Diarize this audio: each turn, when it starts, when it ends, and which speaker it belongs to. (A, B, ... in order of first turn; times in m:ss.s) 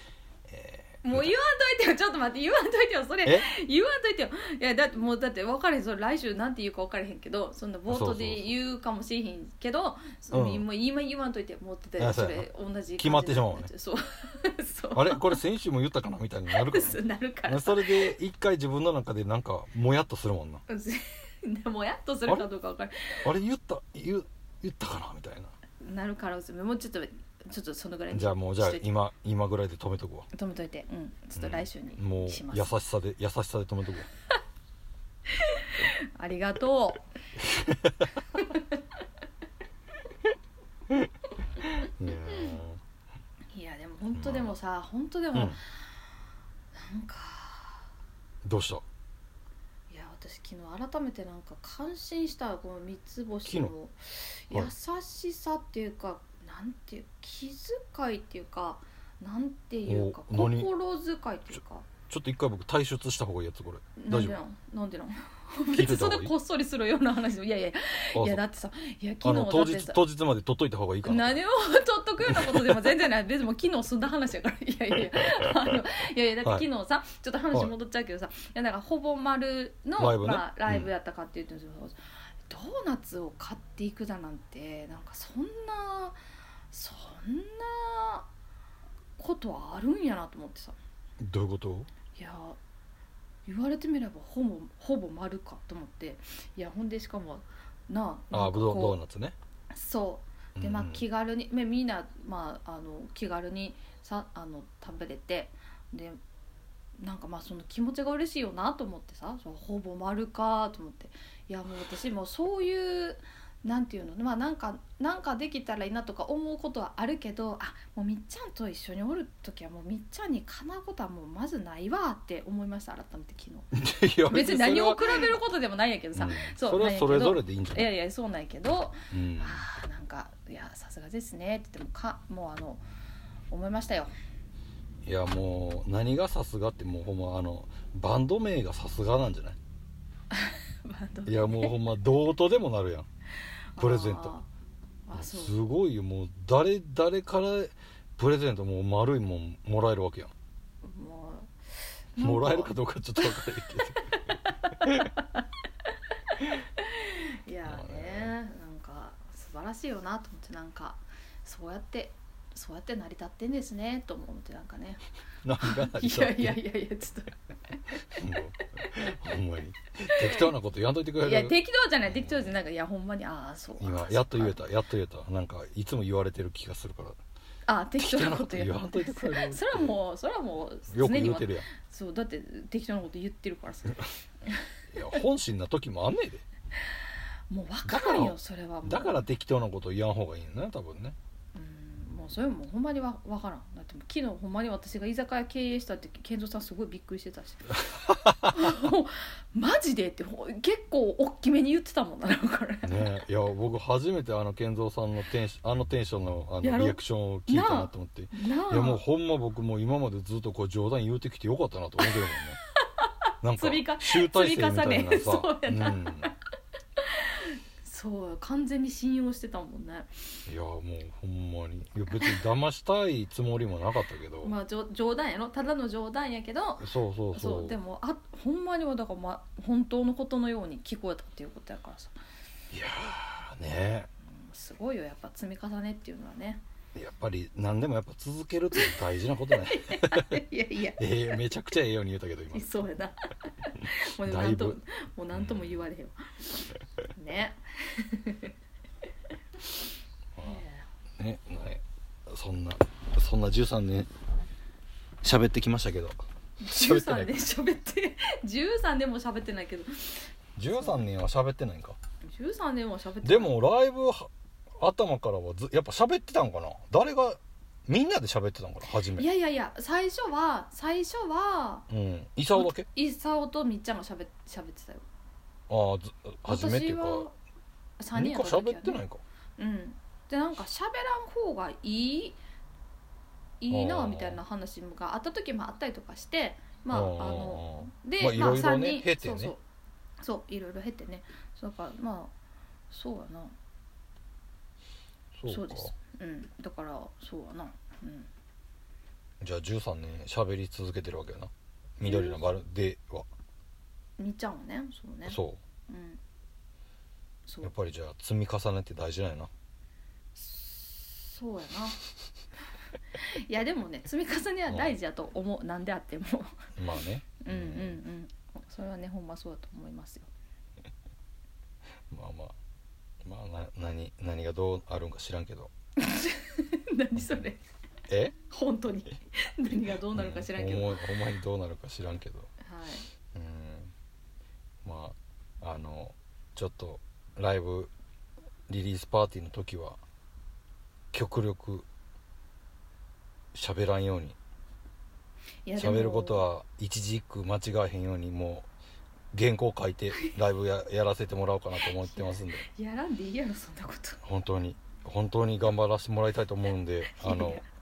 0:00.5-0:01.3 A
0:01.0-0:15.4 B
0:03.2-0:03.5 A
0:07.9-0:08.5 A
0:10.3-0:10.7 A
0:12.0-0:12.5 A
0:13.0-0:13.7 A
0:14.9-0:20.6 A
0:16.5-0:18.2 B
0:20.7-0:23.3 B
0:23.2-0:25.5 A
0:25.8-0:28.8 B
0:28.1-0:30.3 A
0:30.3-0:32.7 B
0:31.4-0:34.1 A
0:35.3-0:37.1 B
0:37.4-0:38.1 A
0:38.4-0:38.6 B
0:41.8-0:42.8 A
0:42.3-0:42.6 B
0:43.5-0:45.7 B
0:44.2-0:44.5 A
0:46.7-0:47.8 B
0:48.4-0:48.8 A
0:49.9-1:01.9 B
0:53.4-0:53.7 A
0:59.9-1:00.7 A
1:02.1-1:04.4 A
1:04.0-1:10.0 B
1:05.7-1:06.3 A
1:08.1-1:08.4 A
1:09.2-1:11.4 A
1:11.0-1:22.0 B
1:12.3-1:12.8 A
1:20.0-1:20.9 A
1:22.5-1:26.2 B
1:26.7-1:28.3 B
1:29.2-1:30.8 B
1:31.2-1:31.9 A
1:32.2-1:32.6 B
1:33.5-1:39.0 B
1:38.3-1:39.4 A
1:39.7-1:46.2 B
1:40.6-1:41.0 A
1:47.0-2:03.7 B
2:03.7-2:05.4 A
2:04.3-2:12.8 B
2:06.2-2:07.9 A
2:09.1-2:09.6 A
2:13.5-2:14.1 B
2:15.0-2:19.6 A
2:20.3-2:21.8 B
2:21.3-2:23.1 A
2:23.8-2:24.5 B
2:23.8-2:24.3 A
2:25.1-2:25.6 B
2:25.1-2:30.3 A
2:30.8-2:31.5 B
2:32.2-2:33.5 B
2:32.2-2:34.0 A
2:34.0-2:35.4 B
2:36.8-2:45.0 B
2:37.7-2:38.3 A
2:45.4-2:46.6 A
2:45.6-2:48.2 B
2:48.2-2:51.5 A
2:48.8-2:49.0 B
2:50.1-2:50.5 B
2:51.2-2:54.6 B
2:52.1-2:52.5 A
2:53.8-2:57.2 A
2:57.7-3:04.6 B
2:58.0-3:00.0 A
3:00.9-3:01.7 A
3:04.9-3:06.4 A
3:07.5-3:09.2 B
3:07.9-3:11.2 A
3:11.6-3:17.8 B
3:18.1-3:18.7 A
3:18.4-3:23.1 B
3:22.8-3:32.6 A
3:26.6-3:29.0 B
3:32.0-3:32.4 B
3:33.0-3:36.3 B
3:33.4-3:36.3 A
3:37.0-3:40.1 B
3:40.5-3:44.5 A
3:44.4-3:52.1 B
3:46.8-3:47.8 A
3:52.7-3:54.1 A
3:54.3-3:56.6 B
3:57.0-4:00.4 A
3:59.5-4:01.4 B
4:01.0-4:02.7 A
4:02.5-4:06.2 B
4:04.2-4:04.8 A
4:05.3-4:05.8 A
4:07.1-4:08.5 B
4:10.4-4:10.6 A
4:10.4-4:10.9 B
4:11.2-4:14.1 A
4:15.2-4:16.2 A
4:16.6-4:21.0 B
4:16.7-4:17.3 A
4:20.6-4:22.0 A
4:22.2-4:23.6 B
4:23.2-4:29.3 A
4:29.2-4:31.9 B
4:31.9-4:32.9 A
4:32.5-4:35.0 B
4:35.7-4:37.3 A
4:36.4-4:37.4 B
4:38.0-4:39.0 B
4:38.2-4:39.2 A
4:39.6-4:42.4 B
4:43.6-4:49.6 B
4:43.7-4:44.4 A
4:46.9-4:49.5 A
4:50.2-4:52.3 B
4:52.9-4:53.6 B
4:55.4-4:55.9 A
4:55.5-4:58.3 B
4:59.4-5:03.3 A
5:02.0-5:02.4 B
5:04.2-5:06.2 B
5:05.3-5:05.6 A
5:07.5-5:07.7 B
5:07.6-5:09.5 A
5:10.4-5:12.0 B
5:13.2-5:16.6 B
5:14.7-5:15.0 A
5:16.8-5:18.0 A
5:17.4-5:20.3 B
5:22.1-5:22.6 A
5:23.2-5:25.7 A
5:26.0-5:27.6 B
5:28.1-5:28.4 A
5:28.5-5:31.0 B
5:30.1-5:32.5 A
5:32.6-5:33.1 B
5:33.3-5:33.9 A
5:34.8-5:37.9 A
5:38.7-5:40.0 A
5:41.1-5:41.9 A
5:43.5-5:44.4 A
5:45.7-5:46.5 B
5:45.8-5:48.7 A
5:49.3-5:52.7 A
5:51.8-5:54.2 B
5:54.2-5:57.6 A
5:57.1-5:57.7 B